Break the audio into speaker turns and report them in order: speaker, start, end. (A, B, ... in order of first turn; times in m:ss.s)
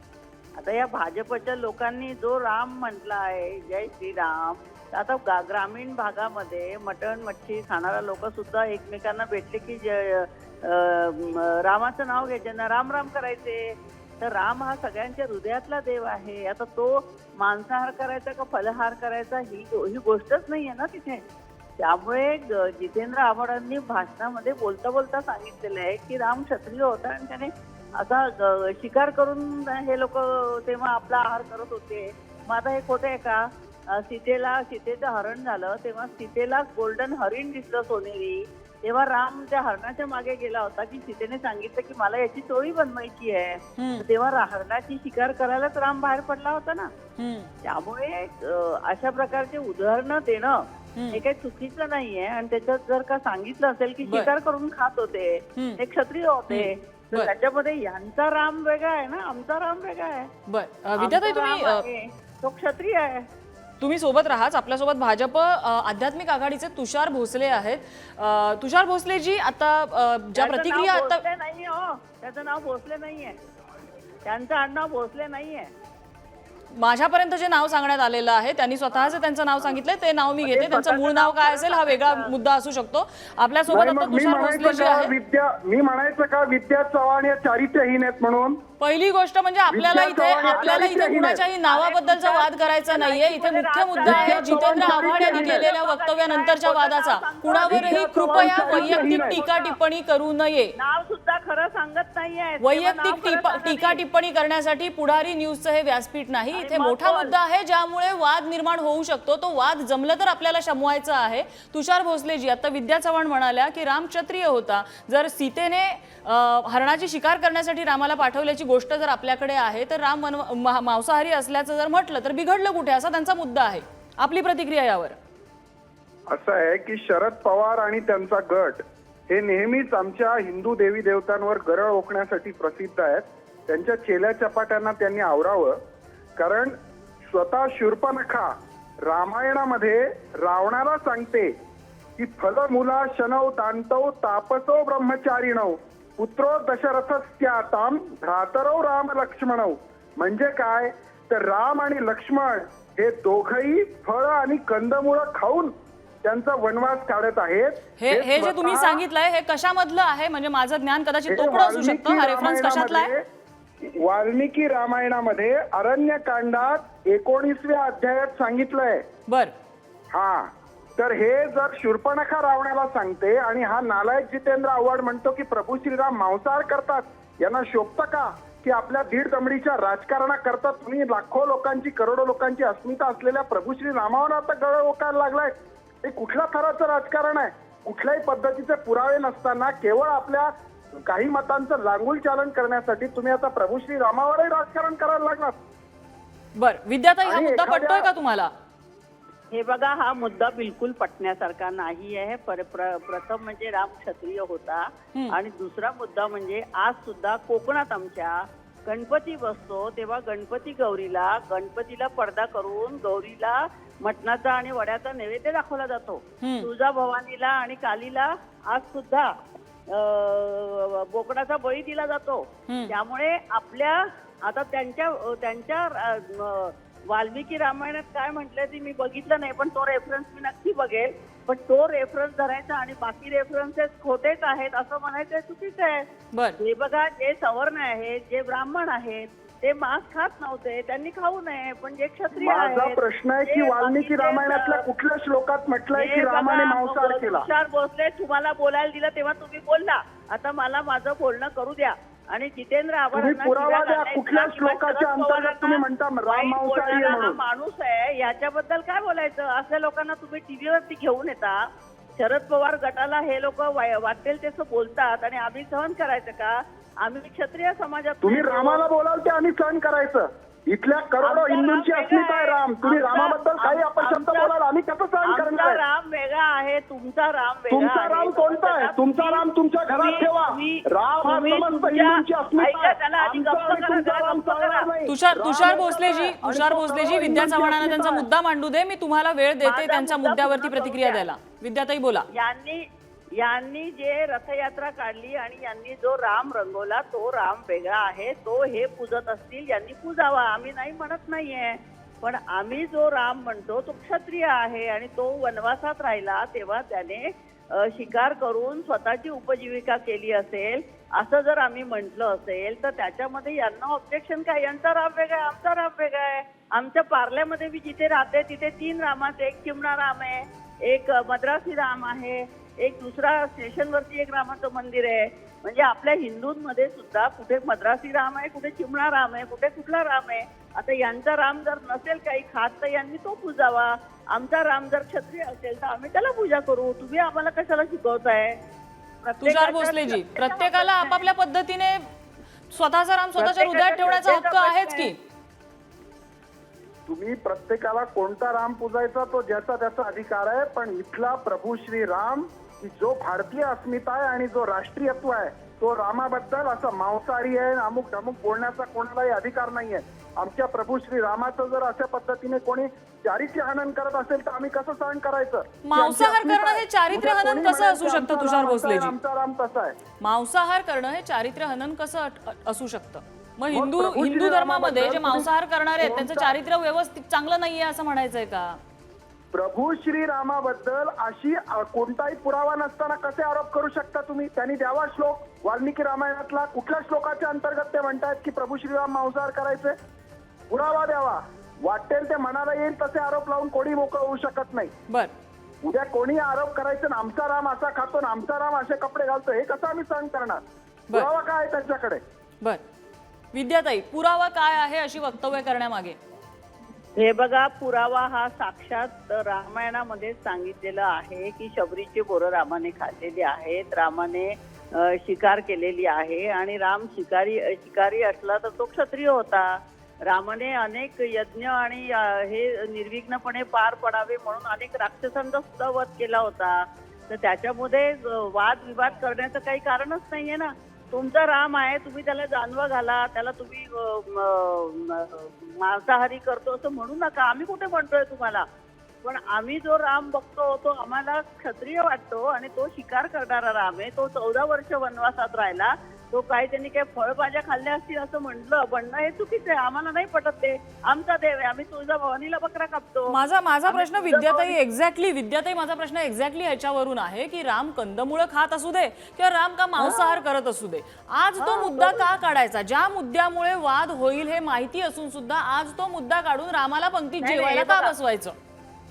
0:00.6-0:21.2 A
0:21.8-0:46.9 A
0:43.8-0:44.0 B
0:47.2-0:47.5 B
0:47.6-1:00.3 A
0:54.0-0:54.3 B
0:55.6-0:55.8 B
0:56.5-0:57.3 B
1:00.5-1:01.8 B
1:01.0-1:03.3 A
1:03.8-1:11.2 B
1:10.4-1:13.4 A
1:14.2-1:15.7 A
1:16.7-1:25.1 B
1:20.4-1:22.3 A
1:23.7-1:28.6 C
1:28.8-1:40.7 B
1:29.7-1:31.4 C
1:29.9-1:39.8 A
1:34.0-1:35.6 C
1:37.6-1:39.4 C
1:40.8-1:44.0 A
1:42.6-2:05.2 B
1:46.5-1:47.3 A
2:06.3-2:15.8 C
2:16.4-2:16.8 C
2:17.3-2:21.5 C
2:22.2-2:39.0 C
2:38.0-2:43.1 B
2:41.3-2:43.2 C
2:43.8-2:49.0 C
2:50.1-3:15.6 C
3:16.5-3:18.5 B
3:17.2-3:18.1 C
3:19.5-3:39.3 A
3:36.4-3:36.7 B
3:39.9-4:04.8 A
3:42.7-3:42.9 B
3:56.3-3:56.6 B
4:02.3-4:07.5 C
4:06.0-4:21.6 A
4:13.1-4:17.4 C
4:22.2-4:28.8 A
4:28.2-4:35.8 C
4:31.2-4:34.5 A
4:35.2-4:44.9 A
4:37.7-4:48.3 C
4:45.0-4:52.3 B
4:49.6-4:51.2 A
4:52.3-4:52.8 A
4:53.4-5:38.6 A
5:39.2-5:41.2 A
5:39.4-5:42.1 B
5:42.7-5:45.2 B
5:43.4-5:45.1 A
5:47.1-6:10.0 C
6:05.8-6:09.1 B
6:10.2-6:18.8 B
6:13.7-6:16.5 C
6:19.5-6:30.0 C
6:30.7-6:34.9 C
6:35.8-6:42.2 C
6:43.5-6:46.2 B
6:47.2-7:18.6 A
7:19.2-7:34.8 A
7:33.3-7:48.5 B
7:40.0-7:40.4 A
7:41.6-7:42.3 A
7:47.4-7:48.1 A